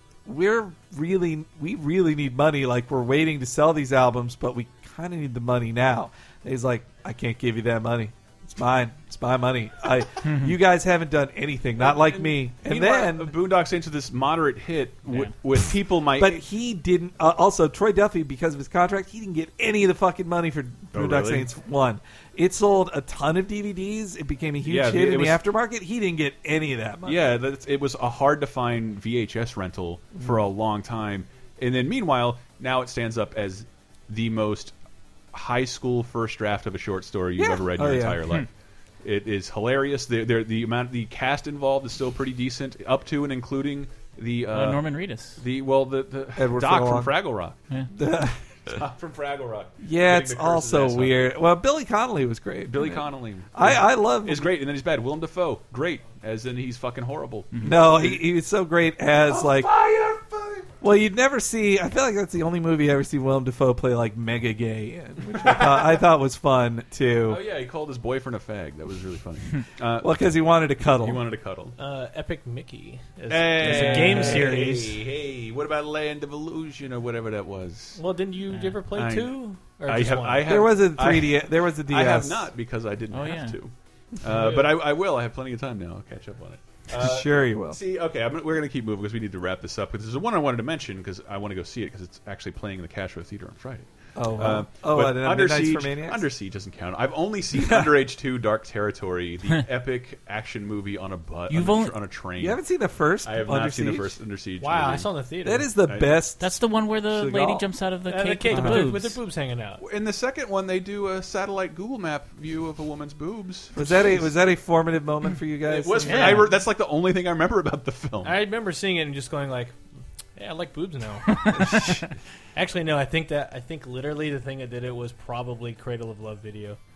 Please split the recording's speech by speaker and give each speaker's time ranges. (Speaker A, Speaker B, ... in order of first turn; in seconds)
Speaker A: 0.2-13.4, 16.2-27.3, 37.4-38.2, 46.4-47.1, 47.9-48.4, 49.8-53.0, 53.5-54.5, 57.6-59.7, 60.8-67.4, 70.0-71.2, 73.6-74.9, 80.4-82.5, 87.0-87.8, 94.2-96.3, 97.5-97.9, 102.4-104.2, 105.4-107.7, 108.5-108.8, 113.7-116.5
Speaker B: 10.2-10.5, 44.5-45.4, 57.5-57.8, 78.5-78.8, 83.1-83.6, 101.5-101.9, 106.4-109.2
Speaker C: 11.8-16.4, 20.9-21.5, 24.6-25.4, 27.0-34.7, 35.3-38.5, 39.0-47.6, 48.6-51.3, 52.7-58.2, 59.2-60.7, 65.3-66.0, 67.2-70.4, 71.0-71.8, 73.3-78.0, 78.9-102.6, 103.2-105.1, 105.8-106.2, 109.8-114.3, 115.7-118.4
Speaker D: 71.8-74.9, 78.0-80.7, 84.3-84.6, 104.6-105.7, 108.1-109.8, 116.0-116.5, 118.2-119.7, 120.3-121.8, 122.5-126.8